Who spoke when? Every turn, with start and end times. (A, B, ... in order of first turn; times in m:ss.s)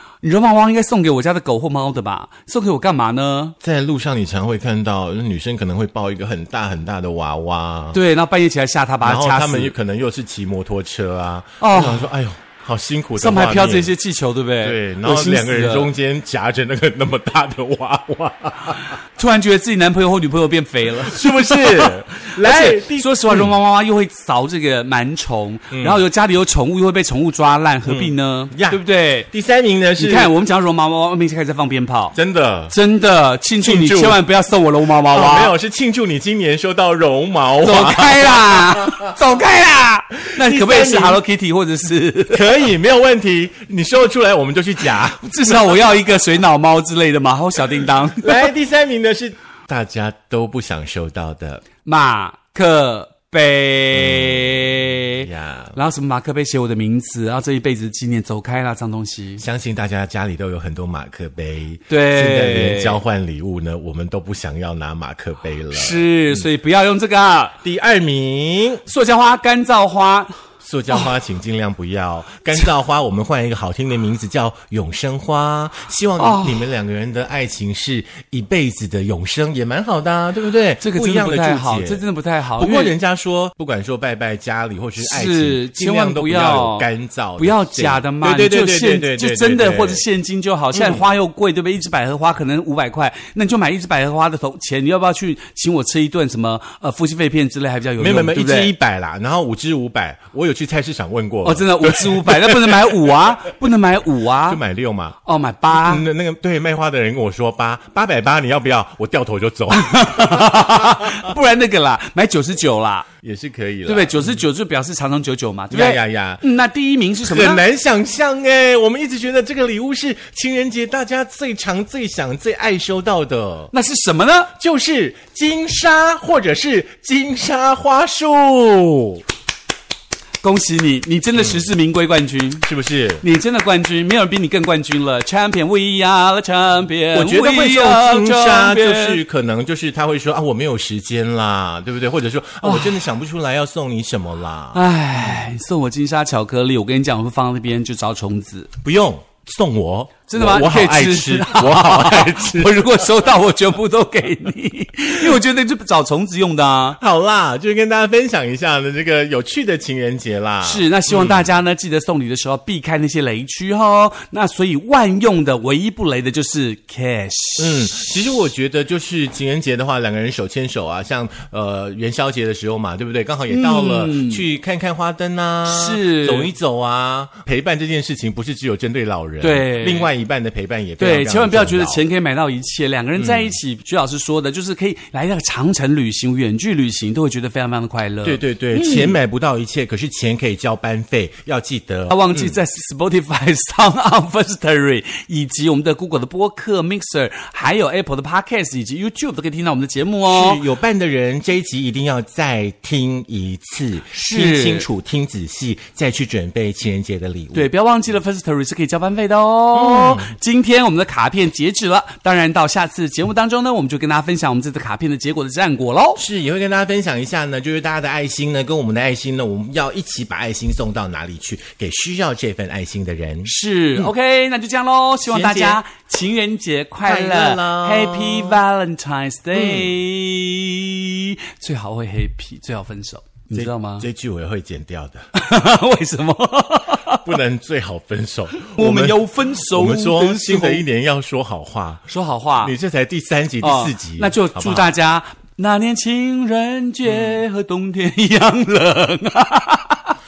0:00.2-0:03.5 A
0:03.6-0:08.0 B
0:07.9-0:09.7 A
0:09.0-0:13.9 B
0:11.6-0:12.1 A
0:13.2-0:15.9 A
0:14.6-0:18.9 B
0:19.2-0:29.3 A
0:21.0-0:23.5 B
0:25.7-0:26.0 B
0:27.8-0:30.3 B
0:30.0-0:32.2 A
0:32.1-0:32.7 B
0:32.7-0:35.5 A
0:33.6-0:34.2 B
0:35.1-0:39.1 B
0:37.6-0:42.6 A
0:40.3-0:41.2 B
0:42.3-0:45.8 B
0:45.2-0:48.5 A
0:48.2-0:51.6 B
0:51.8-0:59.4 A
0:53.9-0:55.8 B
0:59.4-1:06.5 B
1:01.9-1:03.0 A
1:05.7-1:07.6 A
1:07.6-1:08.8 B
1:08.8-1:10.3 A
1:10.6-1:22.0 B
1:16.2-1:16.6 A
1:20.8-1:22.9 A
1:22.6-1:30.0 B
1:25.0-1:38.7 A
1:30.7-1:31.1 B
1:38.0-1:43.2 B
1:41.4-1:44.6 A
1:44.5-1:45.2 B
1:45.2-1:46.1 A
1:45.7-1:51.3 B
1:49.7-1:53.1 A
1:53.2-1:54.4 B
1:53.8-1:57.6 A
1:55.7-1:56.4 B
1:57.2-2:03.7 B
2:03.7-2:04.5 A
2:04.6-2:09.2 B
2:10.4-2:12.7 A
2:11.4-2:11.7 B
2:12.6-2:13.2 B
2:13.2-2:19.2 A
2:17.1-2:24.8 B
2:22.6-2:22.9 A
2:24.7-2:28.7 A
2:28.8-2:33.0 B
2:30.3-2:37.0 A
2:37.0-2:41.5 B
2:40.6-2:48.1 A
2:47.6-3:02.0 B
2:53.5-2:54.4 A
2:55.6-2:56.5 A
2:59.4-3:00.1 A
3:01.0-3:09.2 A
3:03.2-3:03.6 B
3:08.2-3:12.6 B
3:12.1-3:20.6 A
3:20.3-3:27.7 B
3:24.1-3:24.9 A
3:27.5-3:36.2 A
3:29.7-3:30.3 B
3:36.2-3:44.1 B
3:43.4-3:54.0 A
3:45.2-3:45.8 B
3:47.0-3:48.6 B
3:49.5-3:49.9 B
3:53.5-3:55.3 B
3:55.3-3:57.2 A
3:57.1-4:02.0 B
3:58.6-4:00.8 A
4:02.1-4:02.7 A
4:02.6-4:04.9 B
4:03.6-4:10.2 A
4:07.0-4:07.4 B